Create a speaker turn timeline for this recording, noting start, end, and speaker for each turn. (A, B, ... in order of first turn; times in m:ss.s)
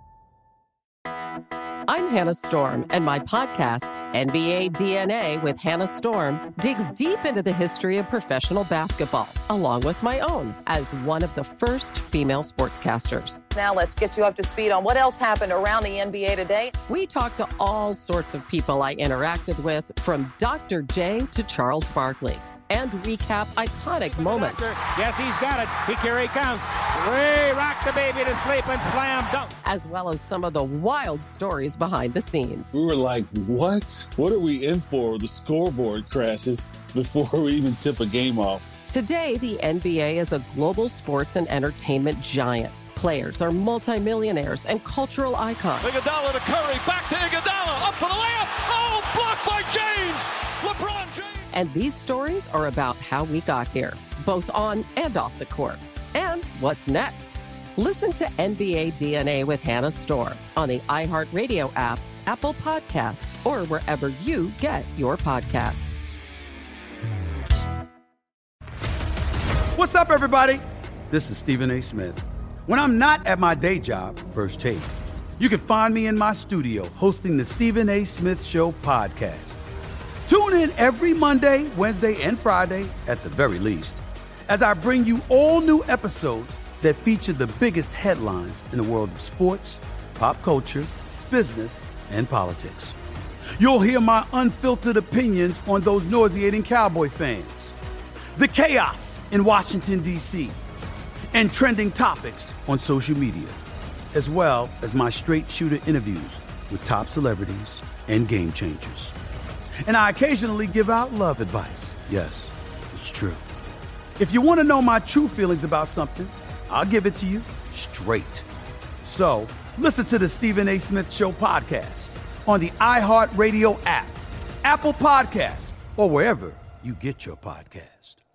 0:01.9-0:13.4 A
0:13.6-0:16.7 B
0:16.9-0:24.6 A
0:24.2-0:29.5 C
0:29.6-0:32.7 A
0:32.7-0:38.7 D
0:38.9-0:45.9 A
0:45.9-0:51.4 E
0:51.5-1:06.0 A
1:09.8-1:19.6 F
1:20.3-1:32.9 F
1:33.6-1:37.7 F
1:38.4-1:40.6 F
1:41.3-1:43.6 F
1:44.1-1:49.1 F
1:49.9-1:53.4 F
1:54.2-1:58.4 F
1:59.0-2:08.2 F